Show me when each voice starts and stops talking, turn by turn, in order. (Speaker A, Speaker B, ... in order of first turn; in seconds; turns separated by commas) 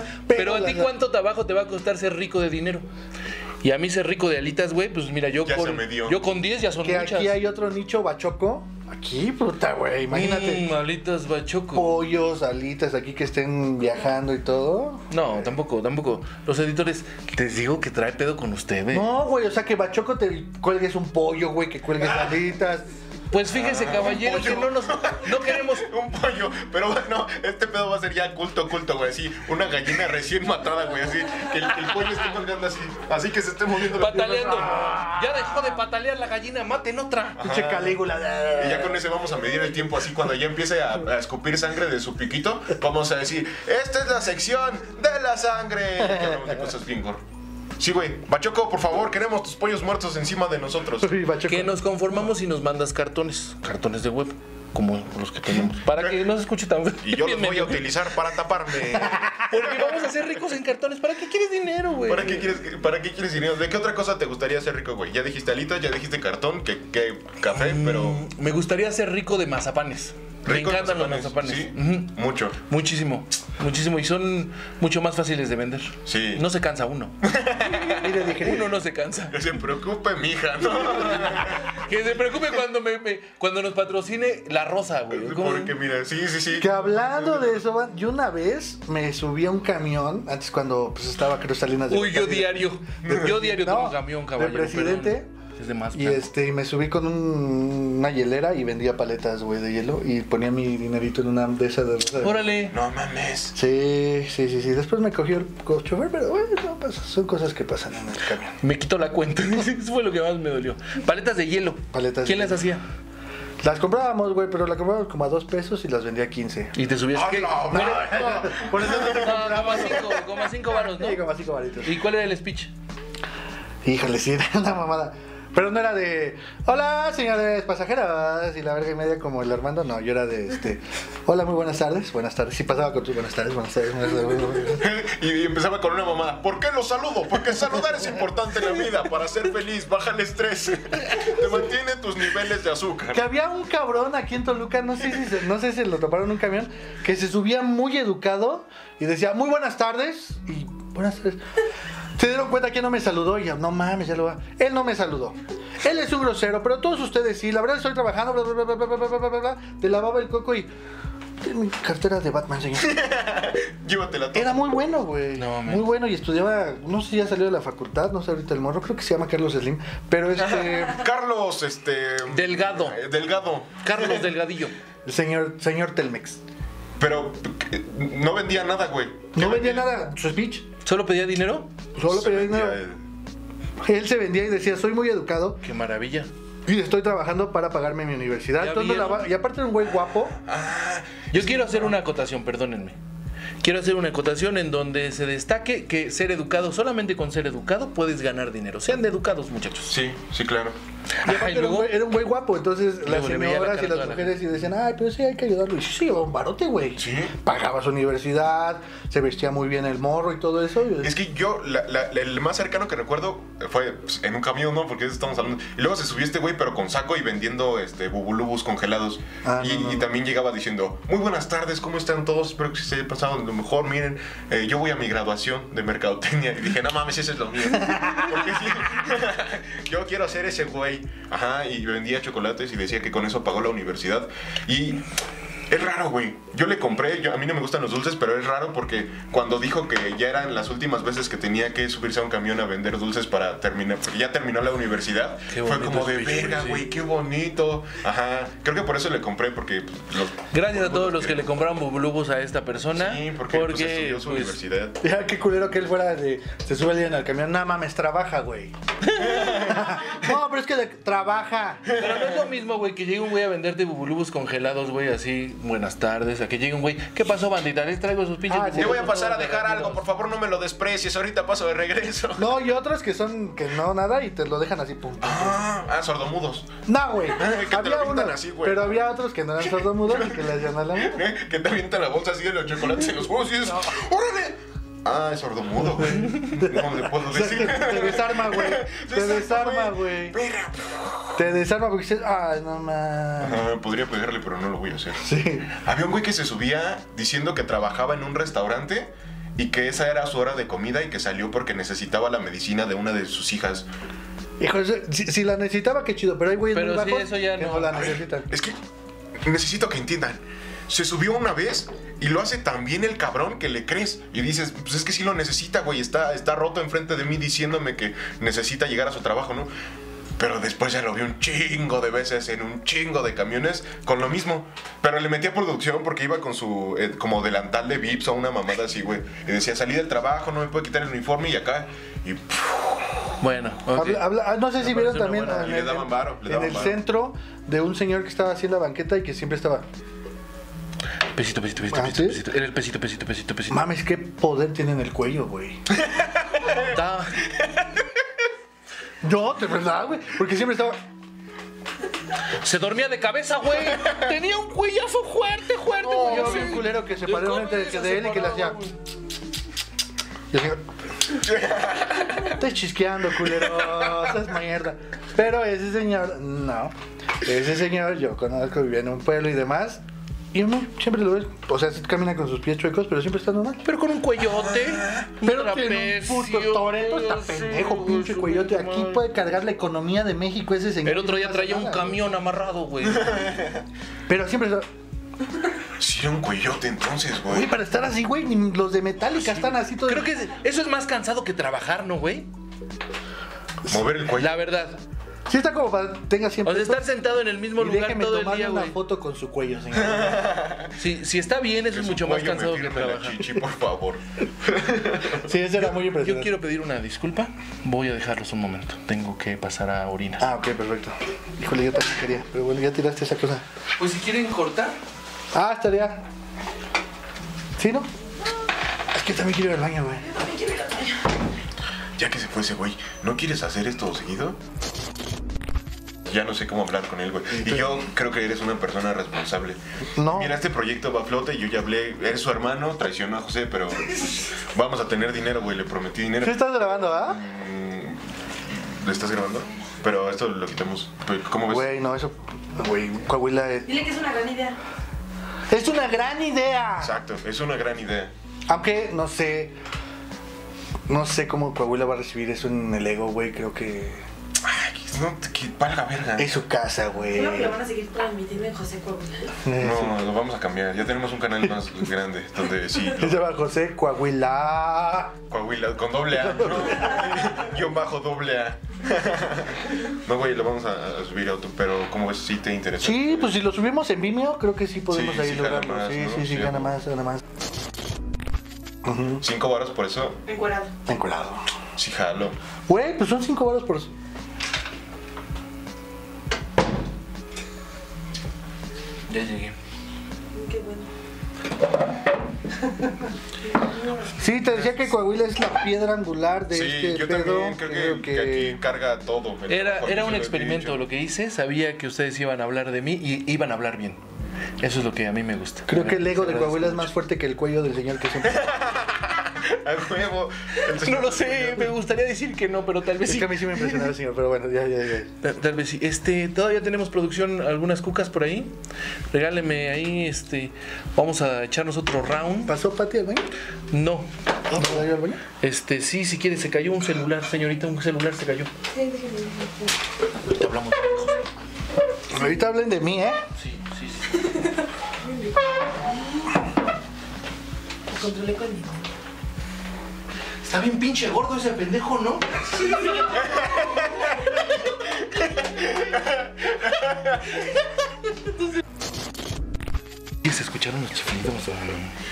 Speaker A: 0.3-0.9, Speaker B: 0.3-2.9, Speaker B: 3.6-7.4, Speaker C: 5.5-6.2, Speaker A: 6.8-10.7, Speaker B: 10.1-12.0, Speaker A: 11.7-15.3, Speaker B: 15.1-19.1, Speaker A: 18.9-22.9, Speaker B: 23.3-25.9, Speaker C: 23.5-34.9, Speaker B: 34.0-37.5, Speaker A: 34.1-35.3, Speaker C: 37.4-38.0, Speaker A: 37.4-39.0, Speaker C: 38.5-47.2, Speaker A: 46.0-46.5, Speaker C: 47.8-51.2, Speaker A: 51.0-51.8, Speaker B: 51.5-57.9, Speaker C: 55.6-56.2, Speaker C: 57.0-60.1, Speaker B: 59.5-62.5, Speaker C: 62.1-68.2, Speaker B: 67.5-72.1, Speaker C: 70.5-72.6, Speaker B: 72.7-77.2, Speaker C: 76.1-76.5, Speaker C: 77.2-78.1, Speaker A: 78.0-78.7, Speaker B: 78.4-79.4, Speaker C: 79.3-81.7, Speaker B: 81.0-85.8, Speaker C: 85.1-87.6, Speaker A: 86.5-95.3, Speaker B: 91.9-96.3, Speaker A: 95.9-102.4, Speaker B: 102.2-102.8, Speaker C: 102.7-103.5, Speaker A: 103.5-108.6, Speaker B: 108.6-112.8, Speaker A: 111.9-112.6, Speaker A: 113.6-116.7, Speaker B: 116.7-121.2, Speaker C: 117.1-120.0, Speaker A: 117.6-122.0, Speaker B: 121.8-122.7, Speaker A: 123.8-134.9, Speaker C: 134.8-143.3, Speaker A: 143.1-151.4, Speaker A: 152.2-160.7, Speaker A: 161.4-163.1, Speaker C: 162.8-164.6, Speaker A: 164.3-171.1, Speaker B: 165.4-165.9, Speaker C: 170.4-174.3, Speaker B: 172.3-173.0, Speaker B: 173.8-174.7, Speaker A: 175.1-176.4, Speaker C: 177.0-179.9, Speaker A: 179.3-180.7, Speaker B: 180.8-181.7, Speaker A: 182.0-182.8, Speaker C: 182.0-183.0, Speaker A: 183.8-185.6, Speaker B: 185.6-186.3, Speaker A: 186.7-190.4, Speaker B: 188.6-189.3, Speaker C: 190.1-191.9, Speaker B: 191.3-193.0, Speaker B: 193.6-200.0, Speaker C: 199.9-200.8, Speaker B: 201.2-202.0, Speaker A: 201.2-211.1, Speaker B: 203.1-204.4, Speaker C: 207.0-207.3, Speaker C: 211.0-235.1, Speaker A: 219.4-220.1, Speaker A: 227.8-228.3, Speaker C: 235.7-251.7, Speaker B: 245.5-246.9, Speaker B: 250.5-254.6, Speaker C: 252.9-255.0, Speaker A: 255.0-258.7, Speaker C: 259.2-260.2, Speaker A: 259.4-261.8, Speaker C: 261.9-262.2, Speaker B: 261.9-270.0, Speaker A: 268.5-269.2, Speaker C: 268.8-272.6, Speaker A: 272.4-275.6, Speaker C: 275.2-276.7, Speaker A: 276.9-281.2, Speaker C: 277.3-279.0, Speaker C: 280.0-280.5, Speaker C: 281.0-291.4, Speaker A: 286.1-290.4, Speaker A: 291.4-293.7, Speaker C: 293.4-303.9, Speaker A: 295.2-295.7, Speaker A: 304.6-308.5, Speaker B: 306.7-308.1, Speaker C: 307.9-308.8, Speaker C: 309.4-319.7, Speaker C: 320.4-333.3, Speaker B: 333.4-335.8, Speaker A: 333.9-339.9, Speaker C: 335.5-337.0, Speaker B: 341.4-343.8, Speaker A: 341.9-342.4, Speaker A: 343.7-345.8, Speaker C: 346.0-346.9, Speaker B: 346.9-347.5, Speaker A: 349.2-351.0, Speaker B: 352.6-359.0, Speaker A: 356.0-358.8, Speaker A: 360.5-360.9, Speaker C: 361.3-362.6, Speaker A: 362.5-373.8, Speaker B: 373.9-379.2, Speaker C: 374.6-375.3, Speaker A: 375.4-382.3, Speaker B: 381.1-383.5, Speaker C: 383.2-383.8, Speaker A: 384.3-384.9, Speaker C: 386.0-387.7, Speaker A: 387.5-390.3, Speaker B: 389.4-392.5, Speaker C: 393.9-394.5, Speaker B: 394.4-395.0, Speaker A: 395.5-397.1, Speaker B: 396.6-398.9, Speaker A: 397.8-400.7, Speaker C: 400.1-400.9, Speaker B: 401.0-403.5, Speaker C: 401.9-405.4, Speaker A: 405.4-406.5, Speaker B: 405.8-410.5, Speaker A: 410.4-413.6, Speaker B: 414.0-415.0, Speaker A: 415.5-416.2, Speaker A: 417.8-418.1, Speaker A: 419.1-420.3, Speaker D: 420.3-421.3, Speaker C: 422.2-424.6, Speaker C: 426.3-441.9, Speaker A: 430.2-430.6, Speaker A: 436.4-437.4, Speaker A: 441.6-444.0, Speaker D: 443.9-444.8, Speaker A: 445.7-447.1, Speaker C: 447.0-448.3, Speaker A: 448.7-449.8, Speaker A: 451.1-454.2, Speaker C: 454.6-456.6, Speaker A: 456.4-457.8, Speaker D: 457.3-459.6, Speaker A: 459.6-460.3, Speaker C: 459.8-463.4, Speaker A: 463.1-465.4, Speaker C: 465.5-473.6, Speaker A: 466.3-467.6, Speaker A: 473.0-477.4, Speaker C: 475.1-476.9, Speaker A: 479.0-479.4, Speaker C: 479.4-480.4, Speaker D: 480.5-480.9, Speaker A: 481.1-481.6, Speaker C: 482.0-482.6, Speaker A: 482.9-484.1, Speaker B: 489.3-489.8, Speaker D: 490.5-491.1, Speaker D: 493.6-494.4, Speaker A: 494.4-498.8, Speaker C: 496.7-501.0, Speaker B: 499.7-504.2, Speaker B: 504.8-507.1, Speaker A: 505.9-508.7, Speaker C: 508.4-511.9, Speaker B: 510.8-514.0, Speaker A: 513.2-515.3, Speaker B: 515.4-518.7, Speaker B: 519.3-522.8, Speaker A: 522.6-523.5, Speaker B: 523.9-525.0, Speaker A: 524.7-525.4, Speaker B: 525.6-528.7, Speaker D: 528.9-529.9, Speaker B: 530.5-531.4, Speaker A: 532.3-533.4, Speaker B: 533.6-534.5, Speaker D: 535.2-536.5, Speaker D: 538.1-539.0, Speaker B: 540.6-543.0, Speaker D: 542.9-544.0, Speaker C: 545.6-547.3, Speaker B: 550.4-552.1